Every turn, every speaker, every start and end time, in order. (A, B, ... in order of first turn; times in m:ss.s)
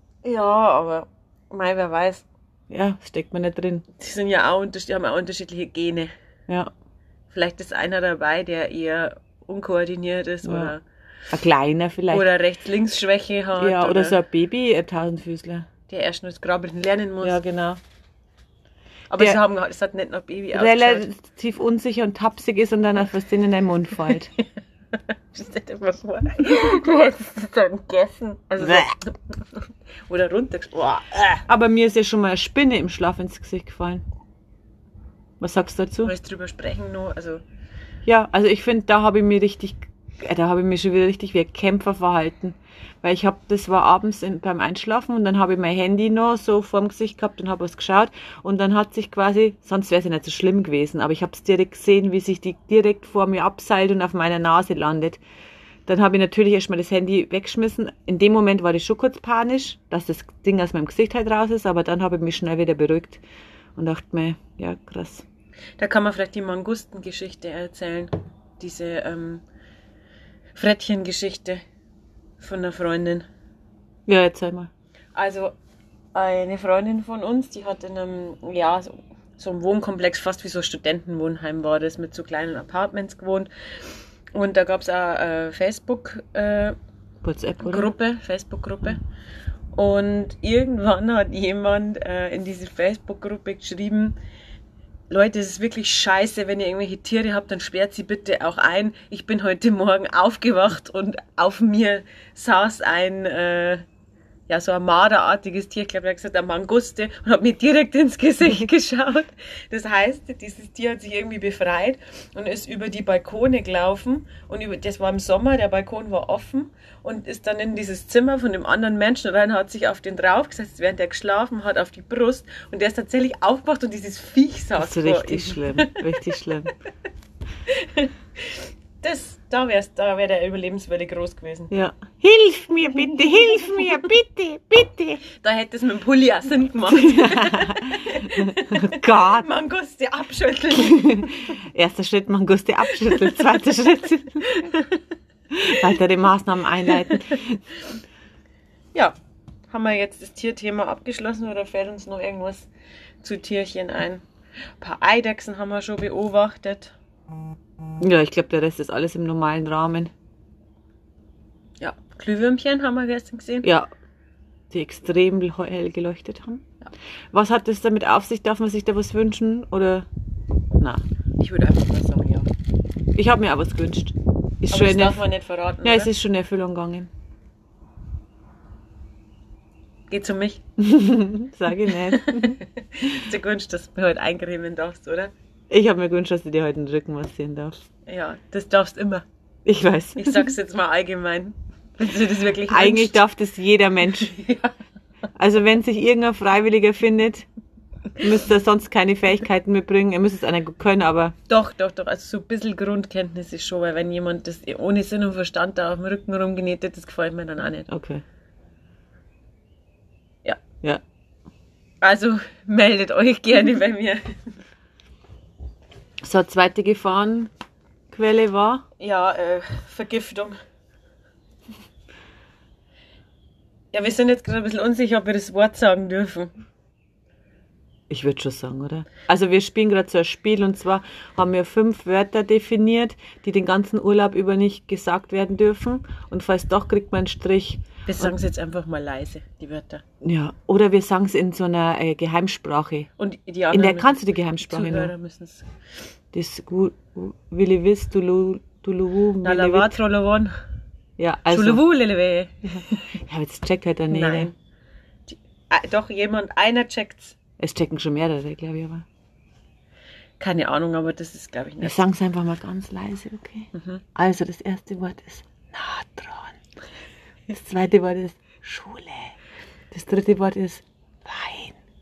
0:00.2-0:02.2 A
0:02.7-0:03.9 B
0:04.0-0:06.1 A
0:07.3-0:10.8 A
0:10.4-0:10.7 B
0:11.3-0:12.3 B
0:12.1-0:14.2 A
0:13.6-0:15.7 B
0:15.9-0:17.4 A
0:17.2-0:17.8 B
0:19.1-0:21.1 A
0:20.5-0:24.3 B
0:25.3-0:31.4 A
0:28.6-0:28.9 B
0:31.5-0:34.0 B
0:35.4-0:36.1 B
0:36.0-0:37.4 A
0:38.1-0:55.2 B
0:55.9-1:03.2 B
1:03.8-1:05.2 B
1:05.8-1:09.4 A
1:10.6-1:11.6 A
1:12.4-1:13.3 A
1:14.1-1:14.7 B
1:15.2-1:15.6 A
1:16.1-1:23.5 A
1:24.3-1:26.8 A
1:27.2-1:27.9 B
1:27.6-1:29.0 A
1:29.7-1:34.2 A
1:35.1-1:43.8 A
1:44.5-2:06.7 A
2:04.8-2:06.7 B
2:07.7-2:11.7 A
2:11.7-2:15.2 B
2:15.2-2:21.3 A
2:16.9-2:19.5 B
2:20.8-2:24.7 B
2:24.4-2:25.0 A
2:25.5-2:27.6 B
2:26.9-2:27.4 A
2:29.7-2:32.7 A
2:33.2-2:34.2 A
2:34.8-2:37.0 A
2:38.0-2:40.1 B
2:41.8-2:43.7 A
2:43.6-2:43.9 B
2:44.7-2:46.7 B
2:47.3-2:50.1 B
2:50.8-2:51.0 B
2:51.4-2:52.5 A
2:53.1-2:55.2 B
2:54.7-2:56.1 A
2:55.8-2:57.1 B
3:00.1-3:00.6 A
3:00.8-3:02.6 B
3:02.1-3:05.3 A
3:05.7-3:07.8 B
3:08.1-3:09.3 A
3:09.7-3:10.5 B
3:10.2-3:13.2 A
3:12.7-3:14.4 B
3:14.2-3:14.7 A
3:15.4-3:17.5 B
3:18.2-3:21.4 B
3:21.5-3:27.9 A
3:27.9-3:28.2 B
3:32.0-3:34.3 A
3:36.2-3:37.5 B
3:38.1-3:38.8 B
3:39.0-3:40.6 A
3:43.9-3:46.5 A
3:48.1-3:58.3 B
3:58.1-4:00.0 A
4:00.2-4:03.1 B
4:03.2-4:05.7 A
4:03.7-4:05.1 B
4:06.3-4:10.0 B
4:09.4-4:10.6 A
4:11.2-4:11.8 B
4:11.5-4:13.2 A
4:12.8-4:14.5 B
4:14.1-4:14.6 A
4:15.3-4:17.4 A
4:17.6-4:19.1 B
4:20.4-4:22.0 A
4:21.8-4:26.6 B
4:23.7-4:24.0 A
4:27.5-4:29.4 B
4:29.9-4:31.8 B